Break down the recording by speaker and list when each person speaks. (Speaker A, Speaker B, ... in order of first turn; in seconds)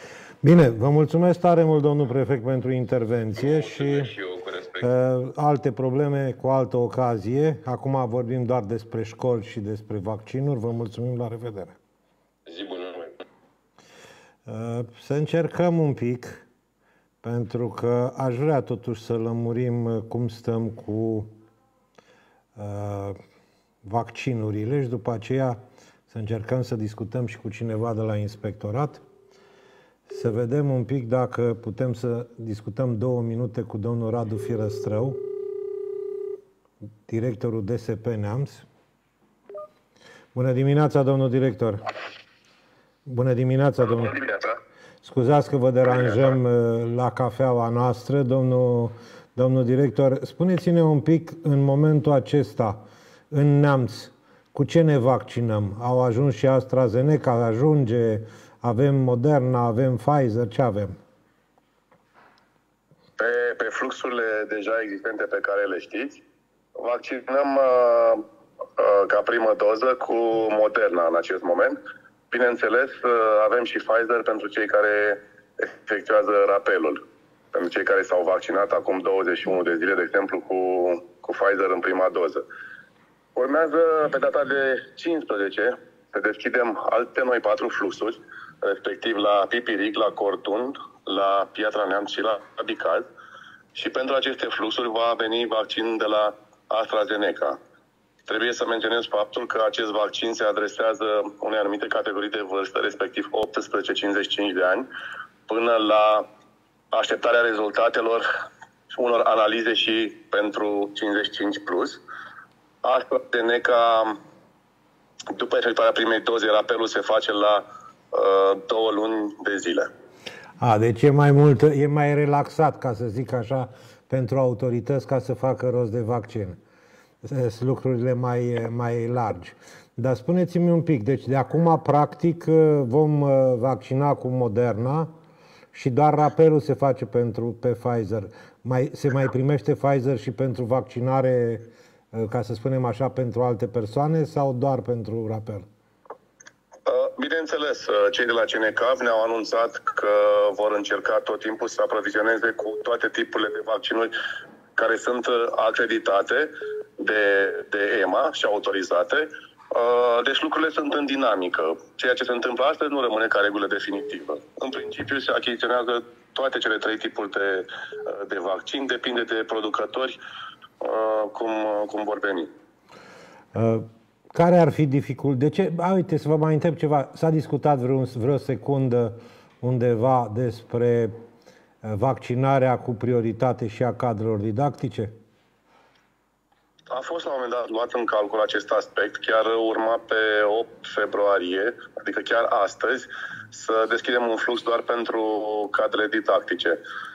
Speaker A: 0.4-4.1, 4.8-11.8, 14.5-16.4, 17.2-21.3, 22.6-23.2, 23.8-25.6, 26.1-29.0, 30.1-35.2, 37.1-38.6, 40.4-41.8, 43.1-44.2, 45.0-61.0, 120.6-126.6, 127.2-135.1, 135.7-145.7, 173.5-181.2, 181.8-185.1
Speaker B: 3.4-4.9, 12.5-13.2
Speaker C: 63.2-66.2, 66.8-68.2, 68.8-71.8, 72.3-77.0, 77.5-82.5, 83.4-93.1, 93.8-97.6, 98.3-104.9, 105.5-106.3, 106.9-108.2, 108.9-112.0, 112.8-114.2, 115.3-119.9, 146.9-154.1, 154.8-170.2, 170.8-172.5, 186.9-196.8